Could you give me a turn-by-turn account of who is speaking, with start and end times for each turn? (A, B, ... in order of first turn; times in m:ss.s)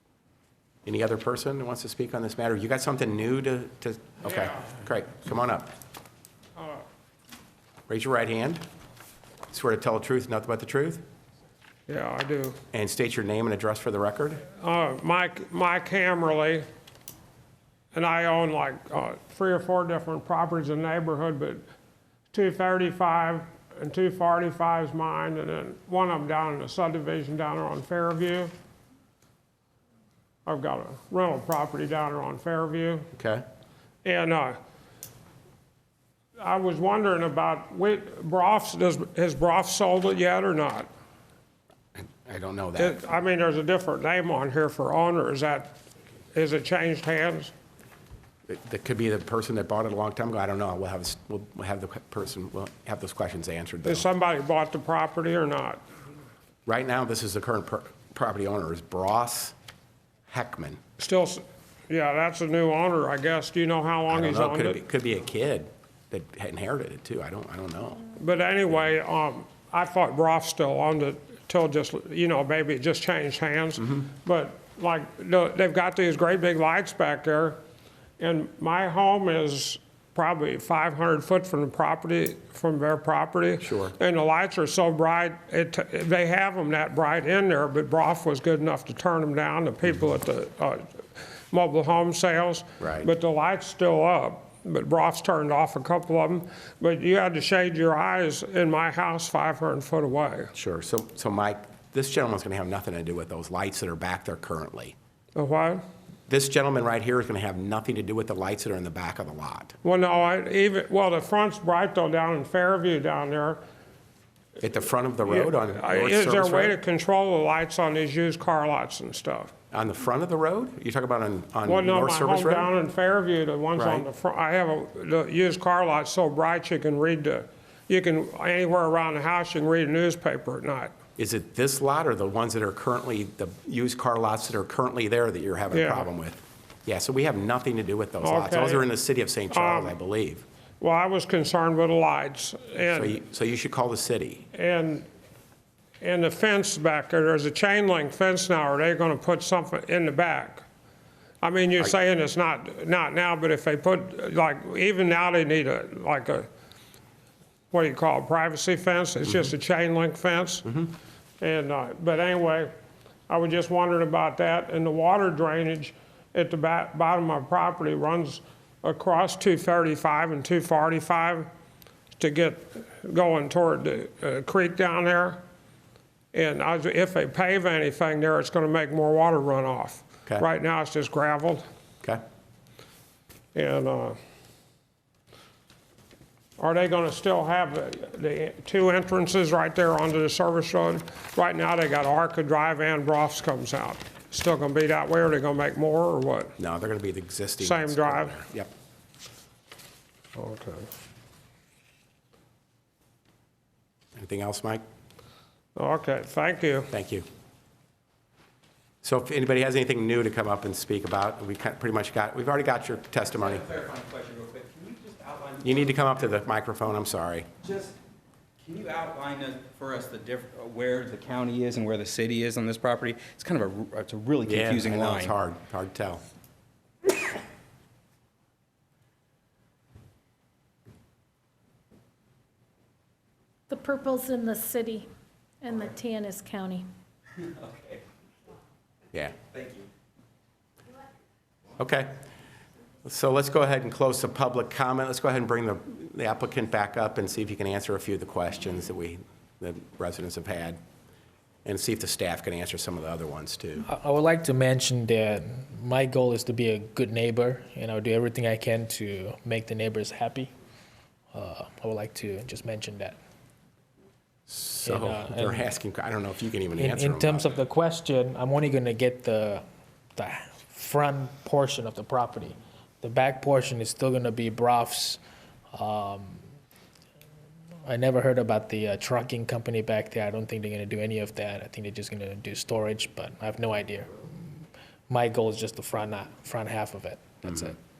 0:00.8-0:05.7 A
0:06.6-0:06.8 B
0:07.9-0:08.6 A
0:09.5-0:11.0 A
0:11.9-0:12.6 B
0:12.7-0:14.4 A
0:14.5-0:16.6 B
0:17.9-0:21.6 B
0:22.3-0:28.5 B
0:30.5-0:33.1 B
0:33.2-0:33.4 A
0:34.0-0:34.6 B
0:36.4-0:40.9 B
0:42.0-0:43.0 A
0:42.8-0:45.7 B
0:46.3-0:47.5 B
0:48.5-0:54.1 A
0:53.8-0:55.8 B
0:56.7-0:59.6 A
1:00.3-1:00.8 A
1:01.0-1:04.8 B
1:04.1-1:08.1 A
1:08.2-1:17.6 B
1:13.8-1:14.1 A
1:18.2-1:40.5 B
1:23.6-1:24.0 A
1:32.8-1:33.1 A
1:40.5-1:45.0 A
1:45.4-1:45.8 B
1:46.3-1:49.7 A
1:49.8-1:53.6 B
1:54.6-1:56.8 A
1:55.3-1:59.5 B
1:59.7-2:02.7 A
2:01.7-2:10.9 B
2:03.8-2:04.1 A
2:11.2-2:20.4 A
2:15.7-2:16.1 B
2:18.2-2:18.9 B
2:19.5-2:20.0 B
2:20.8-2:23.2 B
2:22.8-2:24.4 A
2:24.5-2:25.1 B
2:26.0-2:30.6 B
2:31.4-2:36.5 B
2:37.7-2:40.7 B
2:41.4-2:42.7 B
2:43.3-2:51.5 B
2:52.2-2:55.4 B
2:56.3-3:01.6 B
3:03.5-3:04.2 B
3:06.6-3:16.6 B
3:16.6-3:18.7 A
3:17.6-3:18.4 B
3:24.2-3:24.8 A
3:25.8-3:26.9 B
3:26.9-3:27.3 A
3:29.0-3:33.7 A
3:33.4-3:34.0 C
3:35.1-3:35.8 C
3:35.6-3:37.5 A
3:38.7-3:39.1 C
3:44.4-3:45.3 C
3:44.5-3:46.2 A
3:53.7-3:55.1 D
3:55.6-3:56.9 D
4:01.8-4:02.2 A
4:03.0-4:10.8 A
4:11.6-4:13.9 A
4:13.9-4:20.5 E
4:21.3-4:23.2 E
4:24.5-4:27.6 A
4:24.8-4:25.7 E
4:26.8-4:29.6 E
4:30.2-4:35.2 E
4:35.7-4:36.4 E
4:37.8-4:44.4 E
4:45.1-4:47.8 E
4:47.4-4:47.7 A